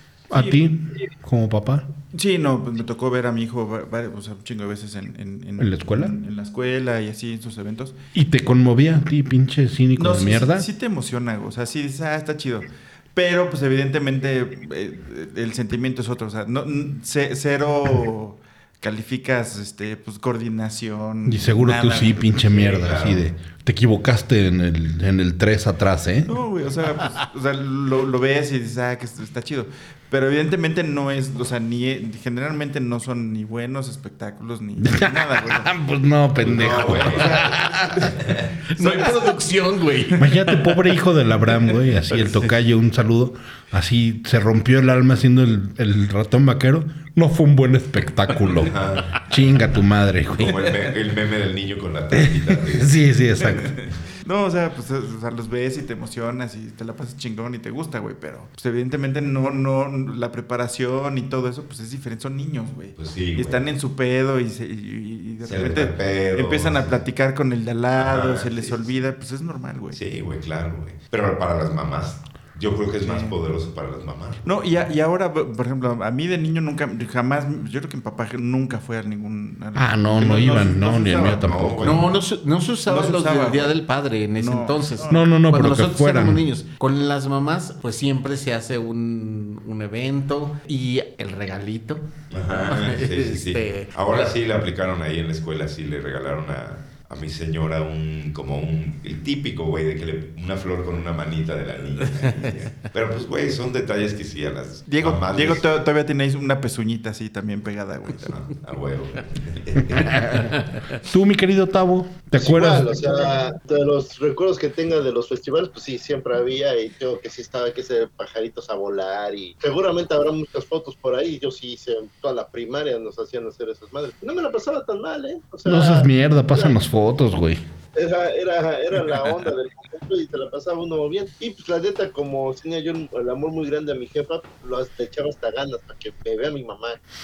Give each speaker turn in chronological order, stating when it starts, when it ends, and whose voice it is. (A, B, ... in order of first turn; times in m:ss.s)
0:00.3-0:01.8 A
0:00.3-0:00.7 B
0:02.1-0:08.0 B
0:05.6-0:06.1 A
0:08.1-0:10.7 A
0:10.0-0:23.0 B
0:21.2-0:26.3 A
0:22.5-0:23.3 C
0:26.2-0:35.7 B
0:34.8-0:37.8 A
0:36.4-0:38.5 C
0:36.5-0:38.1 B
0:37.4-0:37.8 D
0:38.7-0:40.7 D
0:38.8-0:39.4 B
0:40.2-0:50.6 A
0:48.6-0:49.2 C
0:50.3-0:53.0 C
0:52.1-0:53.8 A
0:53.4-1:10.0 B
1:03.0-1:03.6 C
1:05.4-1:07.0 C
1:08.0-1:08.9 C
1:09.9-1:14.4 C
1:13.0-1:13.4 B
1:14.4-1:21.5 B
1:19.7-1:22.0 A
1:21.2-1:22.1 C
1:21.8-1:34.3 D
1:22.8-1:23.8 B
1:24.4-1:25.3 B
1:25.1-1:26.4 A
1:32.3-1:45.6 C
1:42.2-1:42.6 D
1:44.9-1:48.4 B
1:48.2-1:50.5 C
1:49.9-1:50.5 A
1:50.5-1:50.8 D
1:51.0-1:52.9 A
1:52.4-2:06.8 E
2:05.6-2:07.6 A
2:07.9-2:17.0 E